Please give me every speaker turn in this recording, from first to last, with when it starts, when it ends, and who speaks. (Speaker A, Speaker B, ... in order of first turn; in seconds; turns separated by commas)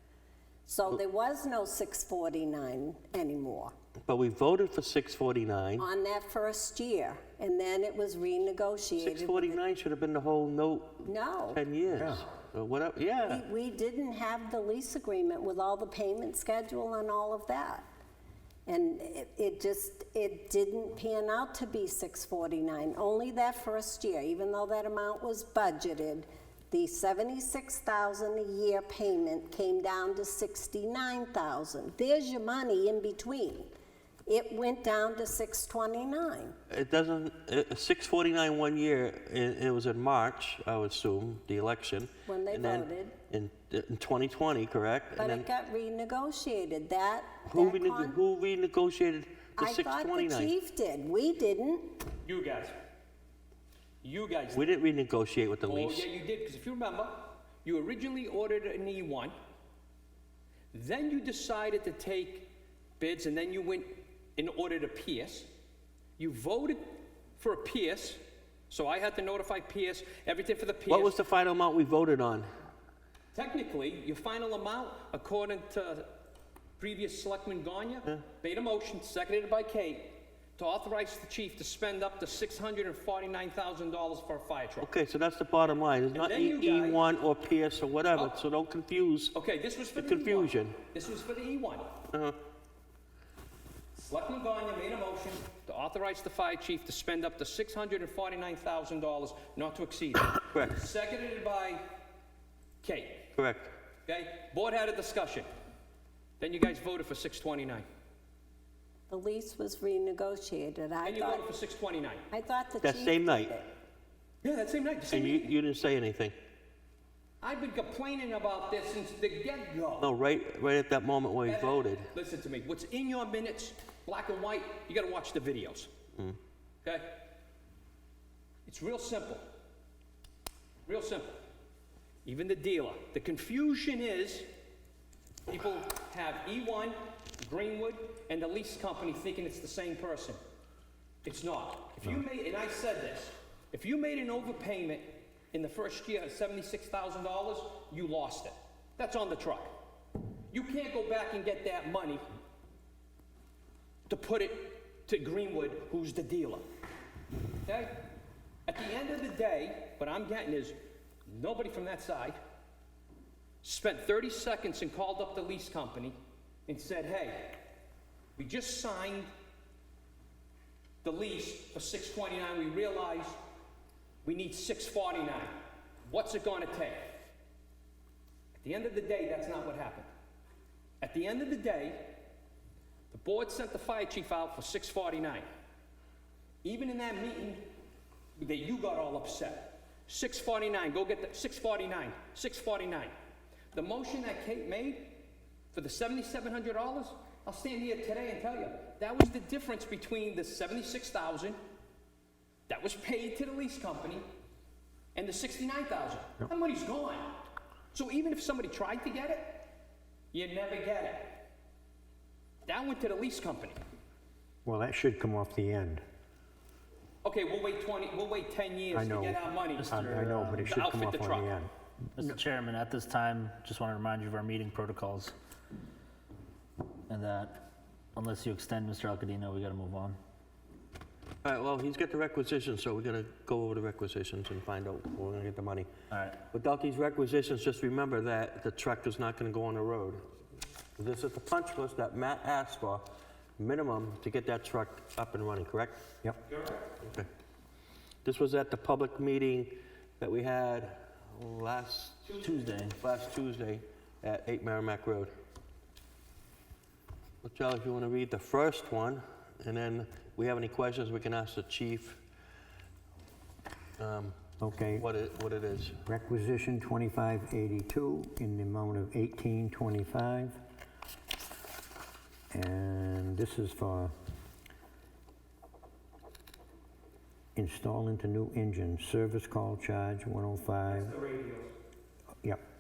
Speaker A: 0.7-3.7, Speaker B: 4.1-5.8, Speaker A: 5.8-9.6, Speaker B: 9.0-13.4, Speaker A: 11.1-11.6, Speaker A: 13.3-17.9, Speaker A: 18.7-33.7, Speaker A: 34.3-36.6, Speaker B: 36.7-45.5, Speaker A: 42.3-43.2, Speaker A: 45.2-48.2, Speaker B: 47.5-50.5, Speaker A: 49.6-52.0, Speaker C: 52.2-52.7, Speaker C: 54.0-54.6, Speaker B: 54.5-56.1, Speaker C: 55.6-59.3, Speaker C: 60.7-62.5, Speaker C: 63.0-65.5, Speaker C: 66.2-71.2, Speaker B: 70.9-72.5, Speaker C: 73.3-76.1, Speaker C: 76.8-84.9, Speaker B: 84.8-89.3, Speaker C: 86.1-87.0, Speaker C: 89.3-91.9, Speaker B: 90.0-90.8, Speaker B: 92.1-92.4, Speaker C: 94.1-101.9, Speaker C: 102.8-103.3, Speaker B: 103.4-103.7, Speaker C: 104.1-105.5, Speaker C: 106.4-107.9, Speaker A: 109.1-111.4, Speaker C: 111.0-112.3, Speaker A: 112.3-113.7, Speaker B: 112.8-113.5, Speaker C: 114.4-115.5, Speaker B: 115.1-116.3, Speaker C: 117.4-120.1, Speaker B: 120.0-122.1, Speaker C: 121.5-125.9, Speaker C: 126.8-127.2, Speaker C: 128.7-129.4, Speaker C: 130.9-131.4, Speaker C: 132.2-134.5, Speaker C: 135.5-140.4, Speaker C: 141.2-149.7, Speaker C: 150.5-152.2, Speaker C: 154.1-156.7, Speaker C: 157.6-158.1, Speaker C: 158.7-162.4, Speaker C: 163.6-166.2, Speaker C: 166.7-167.6, Speaker C: 168.4-169.3, Speaker C: 171.0-173.4, Speaker C: 174.2-177.1, Speaker C: 178.6-180.1, Speaker C: 181.0-182.2, Speaker C: 183.1-185.5, Speaker C: 186.6-187.6, Speaker C: 188.4-193.1, Speaker C: 193.7-195.2, Speaker C: 195.7-201.6, Speaker C: 202.7-204.3, Speaker C: 205.2-207.4, Speaker C: 207.9-209.7, Speaker C: 210.3-211.4, Speaker C: 212.7-213.8, Speaker D: 214.7-216.0, Speaker C: 217.2-220.0, Speaker D: 218.9-222.4, Speaker E: 219.8-220.7, Speaker C: 220.6-221.5, Speaker E: 222.2-225.3, Speaker E: 227.1-230.2, Speaker B: 231.4-235.9, Speaker E: 236.1-236.4, Speaker B: 236.5-240.2, Speaker B: 241.0-246.0, Speaker C: 246.5-246.9, Speaker B: 247.0-247.3, Speaker B: 248.2-255.3, Speaker E: 252.3-253.0, Speaker B: 257.4-262.2, Speaker B: 264.0-264.4, Speaker D: 264.6-265.1, Speaker B: 265.0-266.0, Speaker D: 266.1-270.6, Speaker D: 272.5-274.1, Speaker D: 277.6-281.2, Speaker C: 280.9-281.7